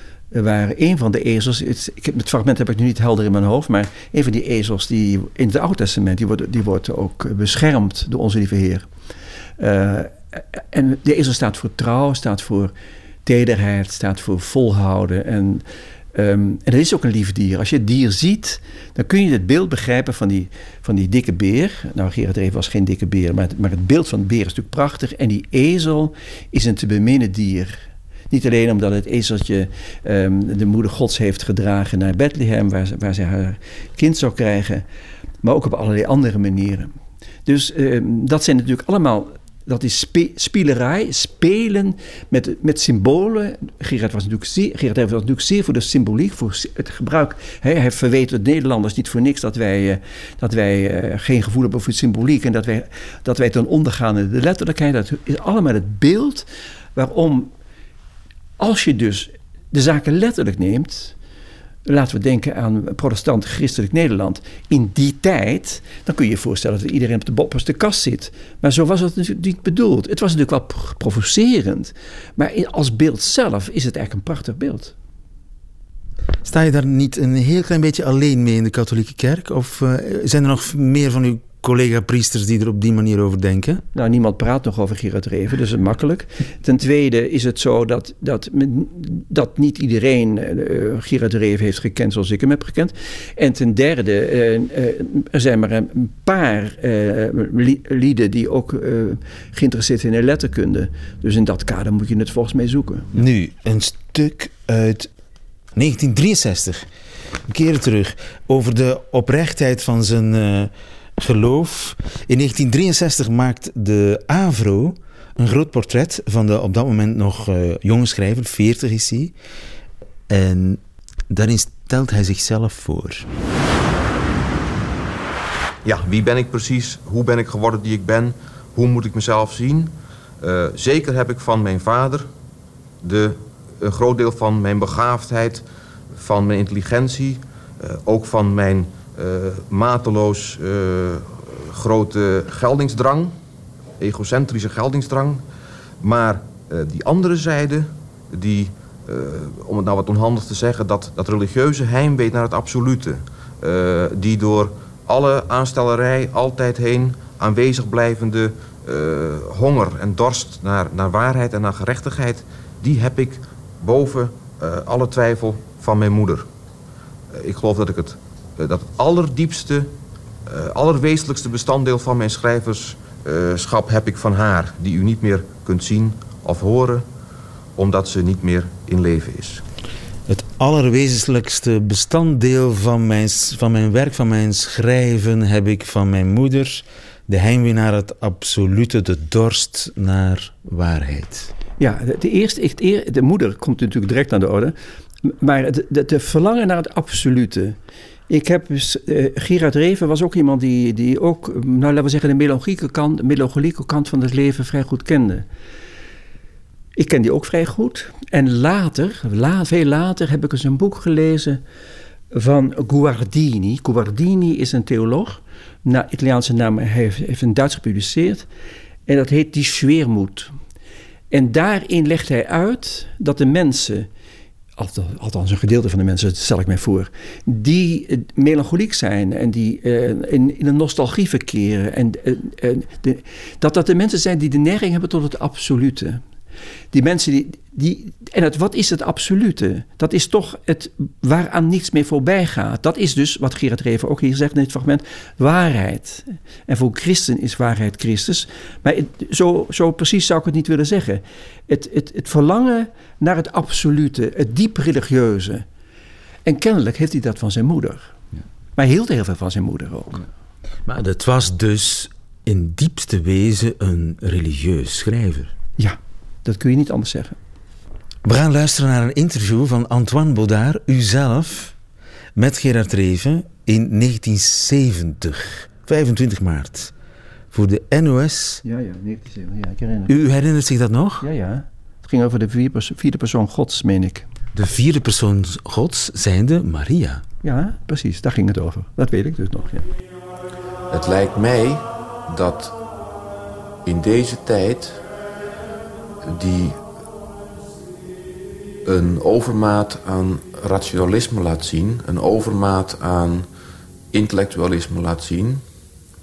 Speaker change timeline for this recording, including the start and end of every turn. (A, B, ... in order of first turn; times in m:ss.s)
0:00.3-0:08.9 A
0:09.6-0:12.7 A
0:13.2-0:15.6 A
0:16.2-0:34.8 A
0:35.4-0:36.9 A
0:37.5-0:57.5 A
0:58.6-1:01.2 A
1:01.9-1:14.9 A
1:16.4-1:23.8 B
1:24.0-1:43.1 A
1:43.1-1:45.1 B
1:45.8-1:46.9 B
1:47.5-1:59.3 B
2:00.3-2:03.3 B
2:05.8-2:12.3 C
2:13.0-2:15.6 C
2:16.2-2:23.4 C
2:24.0-2:25.4 C
2:26.0-2:46.5 C
2:47.3-2:50.0 C
2:50.5-2:57.1 C
2:57.8-2:59.6 C
3:00.3-3:11.5 B
3:11.8-3:17.8 A
3:18.3-3:25.5 A
3:27.0-3:31.6 A
3:32.3-3:38.5 A
3:39.1-3:40.5 A
3:41.3-3:44.1 A
3:44.8-3:56.2 A
3:56.9-4:15.6 A
4:16.4-4:18.1 A
4:18.8-4:20.2 A
4:20.9-4:25.5 B
4:25.8-4:27.4 A
4:28.2-4:31.8 B
4:32.4-4:36.9 B
4:37.5-4:38.6 B
4:38.6-4:40.2 A
4:40.1-4:41.3 B
4:41.2-4:44.3 A
4:44.6-4:47.2 B
4:47.4-4:49.9 A
4:50.9-4:52.8 D
4:53.8-4:55.0 D
4:56.2-4:56.8 D
4:58.8-5:03.5 D
5:04.1-5:05.6 D